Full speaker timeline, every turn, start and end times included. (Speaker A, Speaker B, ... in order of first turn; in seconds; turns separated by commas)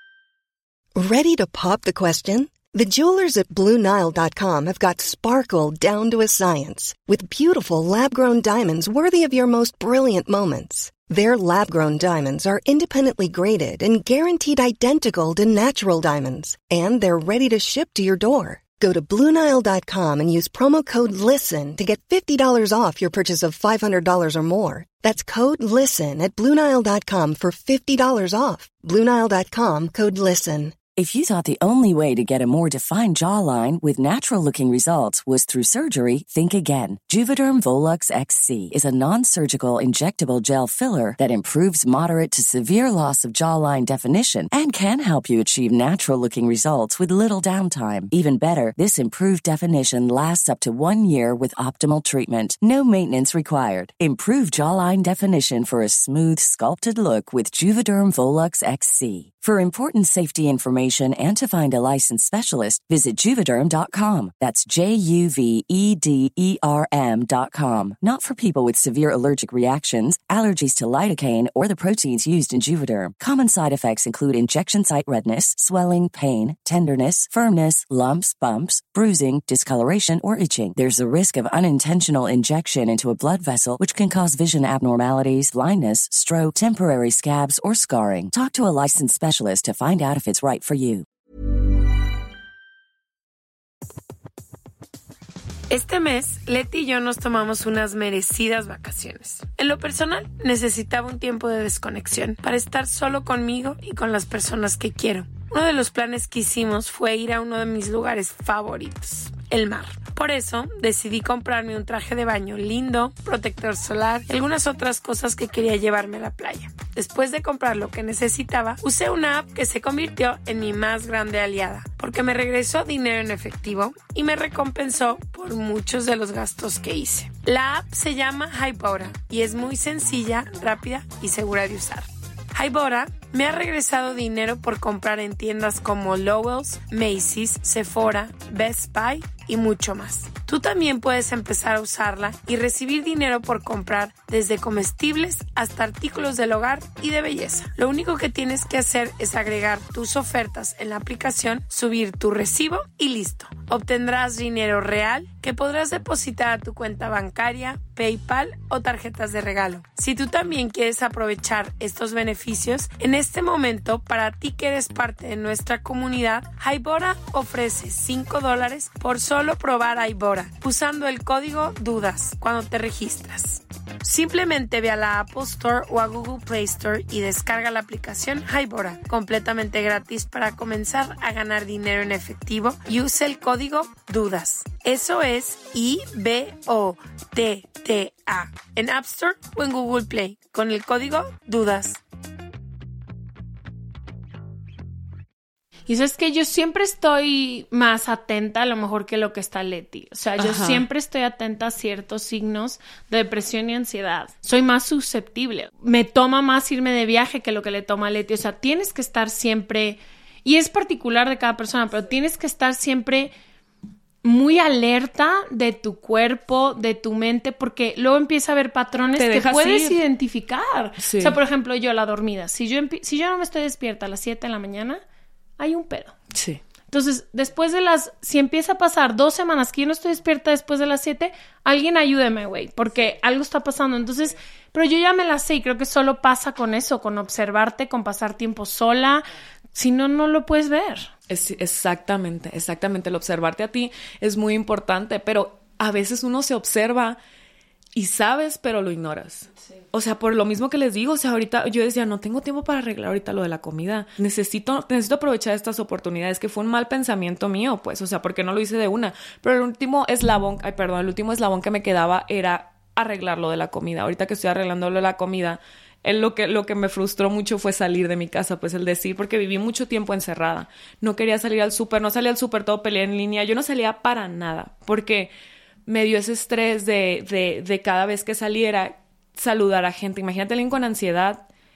Speaker A: 1.0-30.8, Speaker B: 30.9-91.1, Speaker C: 95.7-192.0, Speaker D: 195.9-213.3, Speaker E: 200.4-200.8, Speaker D: 214.2-225.0, Speaker E: 219.2-220.0, Speaker E: 221.0-221.4, Speaker D: 225.6-226.2, Speaker E: 226.3-226.6, Speaker D: 226.9-241.1, Speaker E: 241.3-247.2, Speaker E: 247.9-275.3, Speaker E: 275.9-281.5